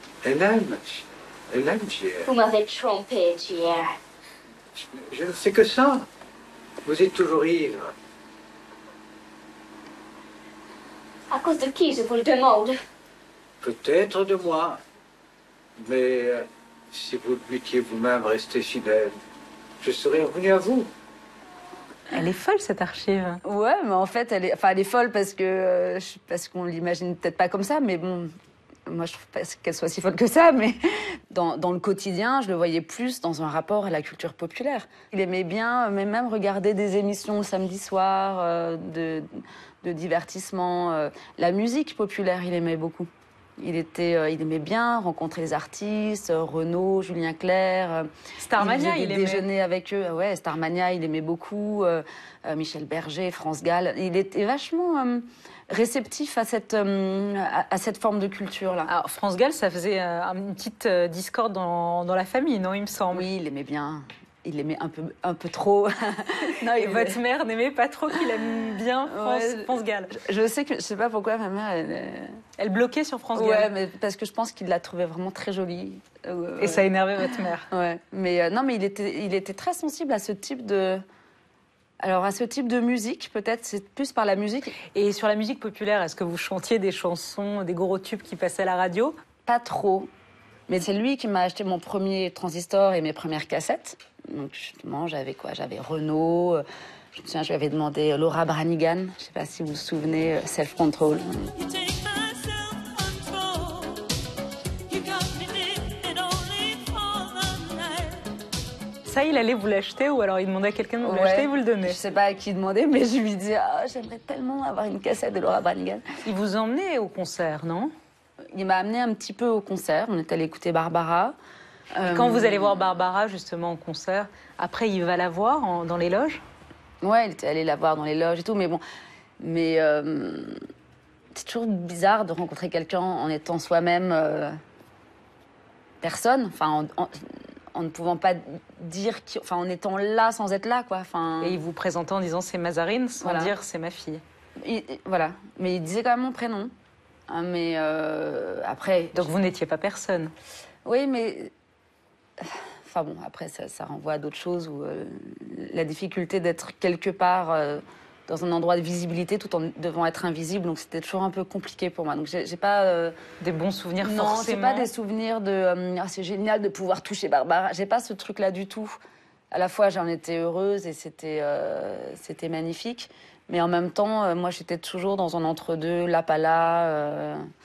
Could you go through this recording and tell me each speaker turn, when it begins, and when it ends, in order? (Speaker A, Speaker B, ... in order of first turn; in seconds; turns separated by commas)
Speaker A: 0.2-2.3, Speaker B: 2.4-4.0, Speaker A: 4.7-6.1, Speaker A: 6.8-7.9, Speaker B: 11.3-12.8, Speaker A: 13.6-14.8, Speaker A: 15.8-19.2, Speaker A: 19.8-20.9, Speaker C: 22.1-23.4, Speaker D: 23.4-28.3, Speaker D: 28.9-58.9, Speaker C: 48.4-49.5, Speaker C: 58.8-63.3, Speaker D: 63.1-67.2, Speaker C: 66.4-70.2, Speaker D: 69.1-72.4, Speaker C: 72.6-73.7, Speaker D: 73.3-76.9, Speaker C: 76.6-77.7, Speaker D: 77.7-81.0, Speaker D: 82.0-84.7, Speaker C: 84.8-89.1, Speaker D: 89.5-90.1, Speaker D: 90.7-96.6, Speaker D: 97.1-101.5, Speaker C: 101.5-104.1, Speaker C: 104.9-108.3, Speaker C: 109.0-112.0, Speaker D: 111.0-116.0, Speaker C: 116.2-117.9, Speaker D: 118.5-121.3, Speaker D: 121.9-123.0, Speaker C: 122.0-126.4, Speaker D: 127.0-128.8, Speaker D: 129.4-130.6, Speaker D: 131.3-134.6, Speaker D: 136.0-141.6, Speaker C: 141.4-144.2, Speaker D: 143.2-143.5, Speaker D: 144.6-146.7, Speaker D: 147.3-149.3, Speaker C: 149.1-150.3, Speaker D: 150.8-151.5, Speaker D: 152.4-163.1, Speaker C: 163.4-164.9, Speaker D: 164.0-169.0, Speaker D: 169.5-177.4